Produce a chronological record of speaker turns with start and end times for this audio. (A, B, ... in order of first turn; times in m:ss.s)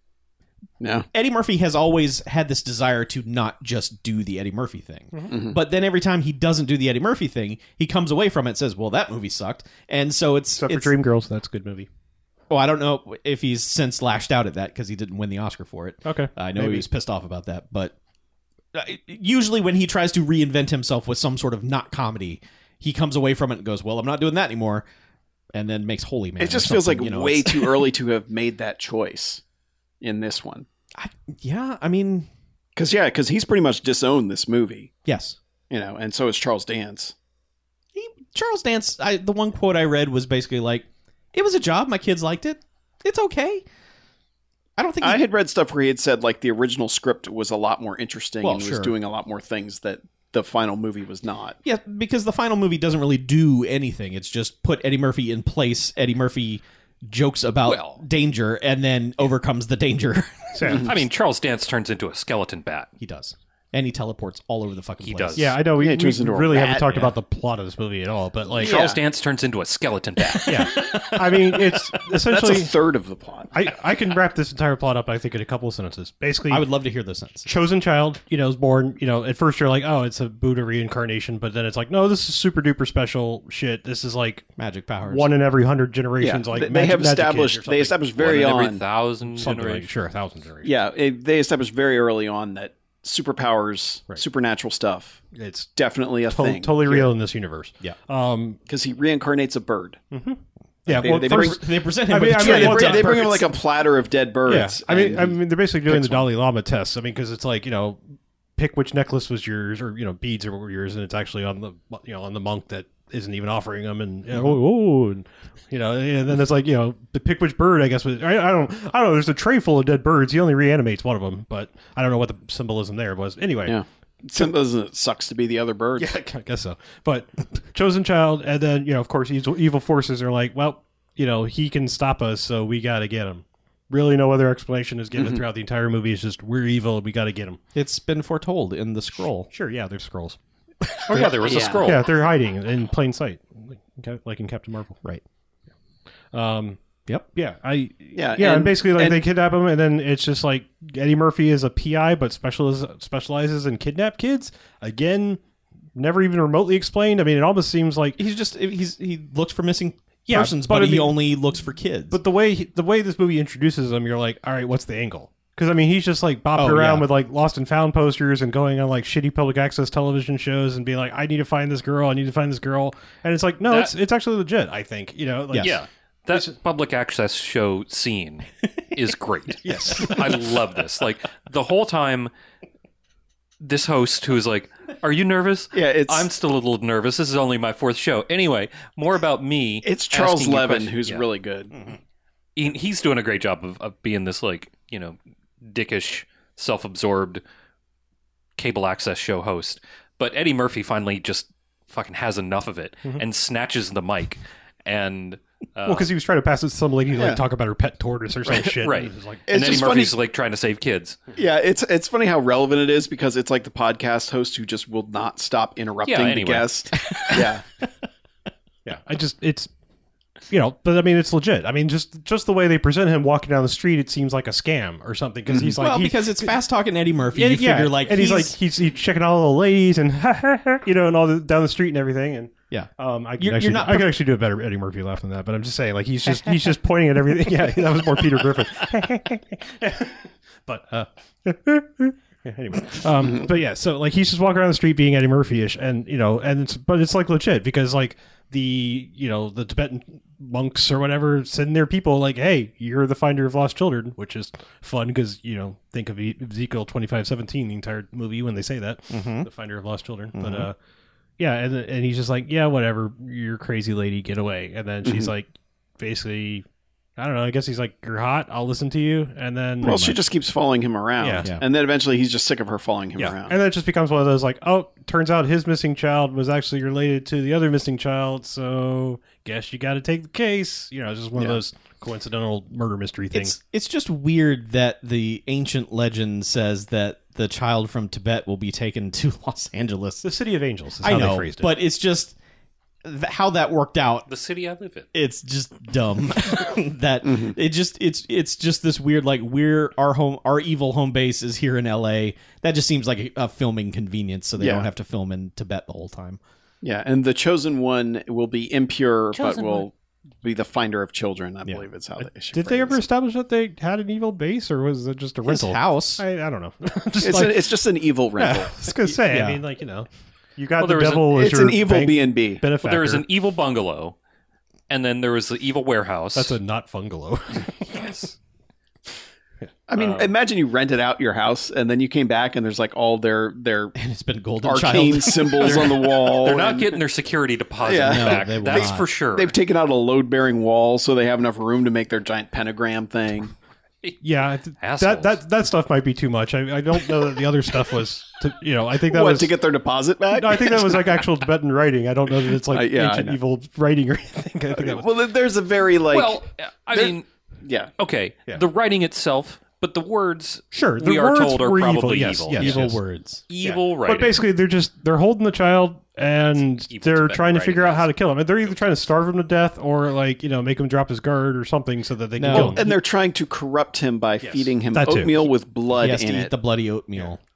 0:00.8-0:01.1 A
0:01.1-0:10.9 B
0:05.3-0:05.6 A
0:10.6-0:11.9 C
0:12.5-0:17.9 B
0:16.0-0:16.8 C
0:18.7-0:24.8 B
0:25.5-0:27.9 B
0:26.4-0:29.4 A
0:30.0-0:30.6 A
0:31.0-0:32.3 B
0:32.8-0:34.9 A
0:35.0-0:35.4 B
0:35.7-0:37.1 A
0:37.9-0:43.6 B
0:44.8-0:45.2 B
0:45.0-0:51.6 A
0:48.4-0:48.9 B
0:51.6-1:00.8 B
0:57.6-0:58.0 D
1:00.5-1:00.9 C
1:00.6-1:00.9 A
1:00.8-1:02.9 D
1:03.0-1:05.6 B
1:05.0-1:05.5 D
1:05.3-1:08.8 C
1:05.8-1:07.1 A
1:08.6-1:09.0 A
1:08.6-1:10.7 D
1:10.3-1:11.8 B
1:10.4-1:12.7 C
1:12.3-1:13.5 A
1:13.5-1:16.6 C
1:16.5-1:17.5 B
1:17.4-1:24.4 C
1:24.6-1:25.3 B
1:25.0-1:28.0 C
1:26.2-1:28.8 A
1:28.2-1:29.9 D
1:29.3-1:30.7 C
1:30.6-1:35.2 A
1:35.3-1:35.7 C
1:35.8-1:37.1 A
1:36.3-1:38.6 C
1:38.7-1:40.0 A
1:40.1-1:43.3 C
1:40.9-1:43.5 B
1:40.9-1:41.6 A
1:42.2-1:45.4 A
1:44.5-1:48.0 C
1:45.9-1:46.2 A
1:48.6-2:03.8 C
2:03.6-2:06.1 A
2:06.0-2:17.6 C
2:15.2-2:15.4 A
2:17.7-2:19.5 B
2:19.5-2:20.4 C
2:20.8-2:21.3 B
2:21.1-2:22.0 D
2:21.4-2:21.9 A
2:21.6-2:25.0 C
2:26.3-2:26.8 C
2:27.3-2:35.4 C
2:28.1-2:29.2 A
2:35.9-2:38.2 C
2:38.2-2:42.2 B
2:40.3-2:41.2 C
2:42.1-2:55.8 C
2:46.5-2:47.1 B
2:53.6-2:53.9 D
2:55.5-2:55.8 B
2:55.6-3:02.3 D
2:59.6-3:00.4 C
3:03.6-3:11.2 D
3:05.7-3:06.3 A
3:09.8-3:11.7 A
3:11.7-3:12.0 B
3:12.6-3:17.4 D
3:18.6-3:26.1 D
3:25.9-3:29.8 C
3:27.1-3:27.4 A
3:28.4-3:28.8 A
3:28.8-3:31.2 D
3:29.5-3:30.2 A
3:31.4-3:37.6 A
3:36.0-3:36.7 D
3:37.0-3:37.6 B
3:38.8-3:39.7 C
3:40.5-3:46.5 C
3:45.5-3:45.8 A
3:45.8-3:48.6 B
3:47.3-4:20.7 C
3:52.7-3:54.1 B
4:03.2-4:03.5 A
4:19.1-4:19.5 B
4:20.3-4:20.7 B
4:21.4-4:25.5 C
4:25.0-4:25.3 A
4:26.0-4:26.6 C
4:27.2-4:30.2 C
4:29.8-4:33.6 A
4:31.2-4:31.5 C
4:33.2-4:43.6 C
4:43.3-4:50.3 B
4:50.2-4:51.7 C
4:51.0-4:52.3 B
4:53.0-4:54.3 B
4:54.3-4:55.1 D
4:55.1-5:06.4 B
4:57.2-4:57.6 A
5:04.6-5:04.9 A
5:06.8-5:13.0 A
5:09.3-5:09.9 D
5:12.5-5:17.7 C
5:15.4-5:16.2 B
5:17.2-5:18.7 A
5:18.4-5:19.6 B
5:18.7-5:23.2 C
5:20.8-5:21.3 D
5:21.3-5:22.6 A
5:22.8-5:24.2 D
5:24.9-5:26.6 D
5:26.3-5:28.1 C
5:27.9-5:28.3 D
5:29.9-5:33.9 A
5:29.9-5:30.3 D
5:34.0-5:36.0 B
5:34.6-5:37.0 A
5:35.6-5:39.5 D
5:37.8-5:43.5 A
5:38.0-5:39.1 B
5:44.2-5:49.5 C
5:44.8-5:45.4 D
5:49.1-5:51.2 A
5:50.3-5:55.1 C
5:52.7-5:53.4 A
5:54.7-5:56.4 A
5:56.1-5:57.3 D
5:56.9-5:57.9 A
5:58.0-6:03.0 D
6:00.7-6:03.0 C
6:02.5-6:03.4 B
6:03.5-6:04.4 D
6:03.6-6:12.9 C
6:06.9-6:08.1 D
6:12.4-6:12.9 B
6:12.5-6:16.5 A
6:14.4-6:15.5 C
6:15.9-6:17.4 B